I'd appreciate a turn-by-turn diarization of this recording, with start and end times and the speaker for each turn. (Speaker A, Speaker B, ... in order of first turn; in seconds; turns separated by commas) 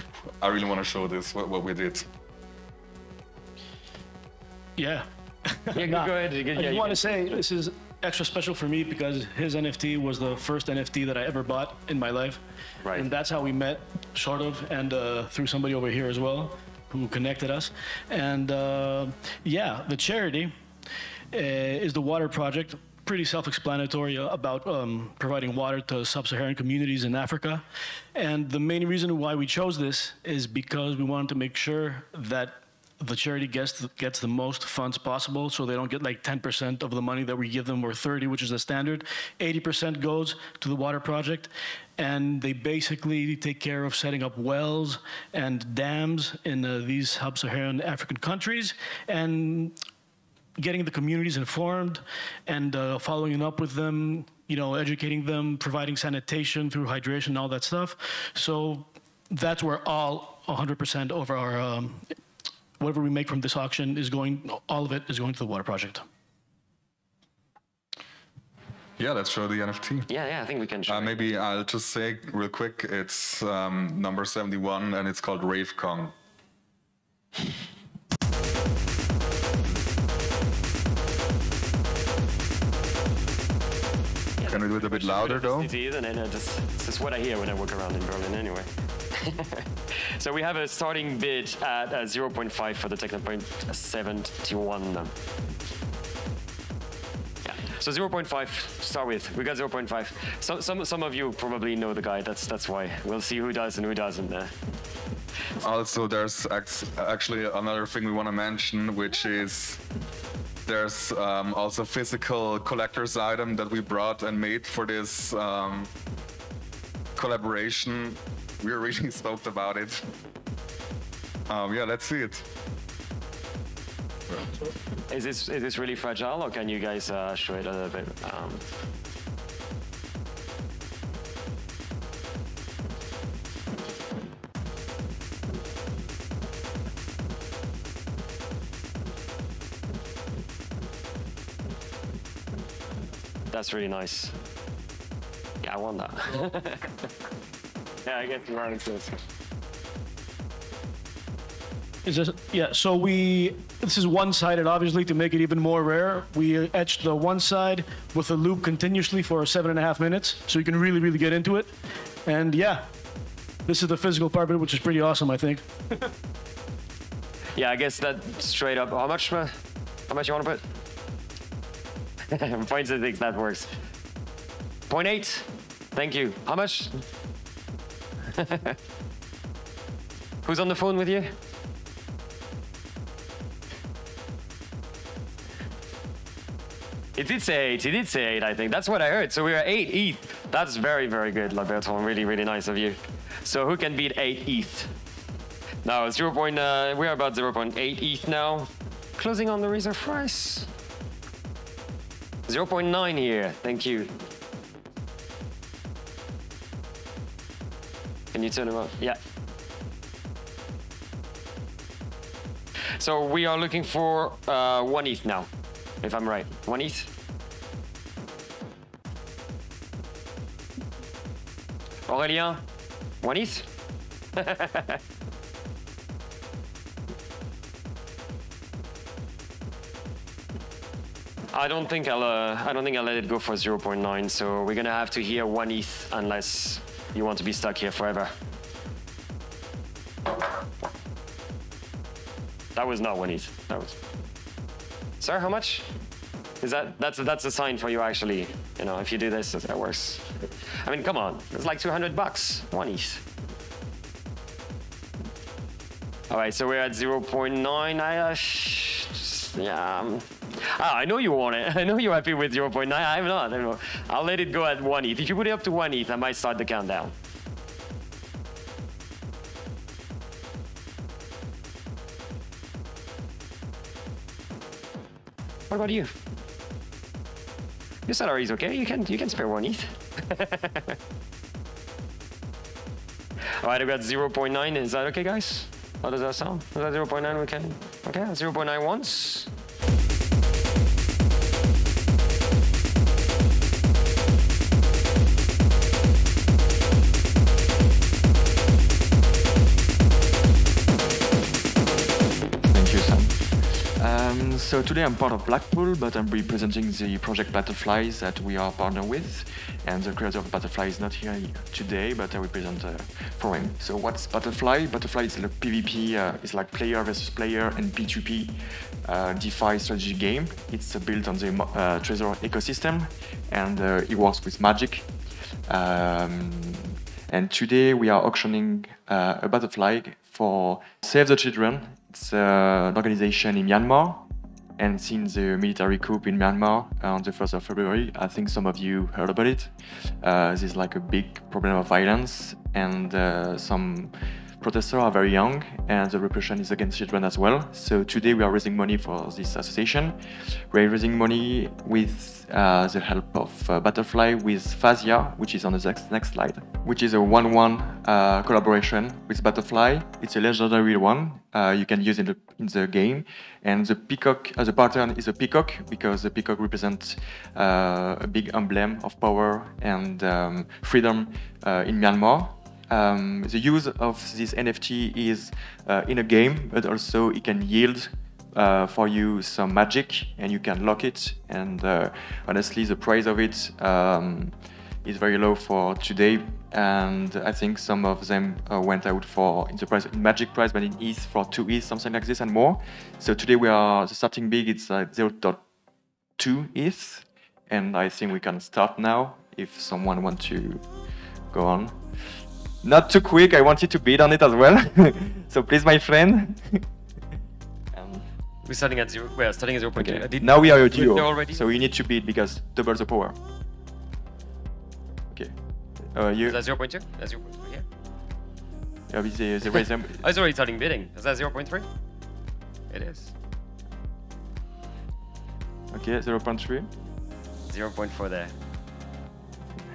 Speaker A: 0.4-2.1, Speaker B: 4.8-20.6, Speaker C: 5.7-7.4, Speaker C: 12.8-13.1, Speaker B: 21.3-49.8, Speaker B: 50.6-62.2, Speaker B: 62.8-66.1, Speaker A: 69.0-70.1, Speaker C: 70.1-71.2, Speaker A: 70.9-76.2, Speaker C: 84.4-95.1, Speaker A: 84.4-85.7, Speaker C: 97.5-104.5, Speaker A: 105.6-109.8, Speaker A: 110.7-115.9, Speaker A: 117.2-120.0, Speaker A: 121.5-122.5, Speaker C: 125.1-128.7, Speaker C: 143.5-144.3, Speaker C: 145.6-146.9, Speaker C: 148.1-149.1, Speaker B: 152.1-162.9, Speaker B: 163.7-165.8, Speaker C: 167.6-169.6, Speaker C: 170.1-170.7, Speaker C: 172.3-173.7, Speaker C: 174.9-177.0, Speaker C: 178.3-178.8, Speaker C: 180.4-181.3, Speaker C: 187.2-194.9, Speaker C: 195.8-200.7, Speaker C: 202.5-204.1, Speaker C: 208.3-209.2, Speaker C: 213.0-215.5, Speaker C: 216.0-217.1, Speaker C: 222.1-222.6, Speaker C: 223.2-223.7, Speaker C: 224.4-225.0, Speaker C: 231.5-238.3, Speaker C: 242.8-244.0, Speaker C: 245.2-245.9, Speaker C: 246.6-250.3, Speaker C: 250.8-253.2, Speaker C: 256.3-267.1, Speaker C: 275.7-276.1, Speaker C: 278.1-281.0, Speaker C: 283.6-289.5, Speaker D: 302.6-334.3, Speaker D: 334.8-395.6, Speaker D: 396.4-401.0, Speaker D: 401.5-406.9, Speaker D: 407.9-408.2, Speaker C: 408.6-411.7, Speaker D: 410.0-413.4, Speaker D: 416.1-416.6, Speaker C: 416.4-417.9, Speaker D: 419.1-420.2, Speaker C: 419.7-421.9, Speaker C: 422.9-423.3, Speaker D: 425.9-426.9, Speaker C: 427.7-428.5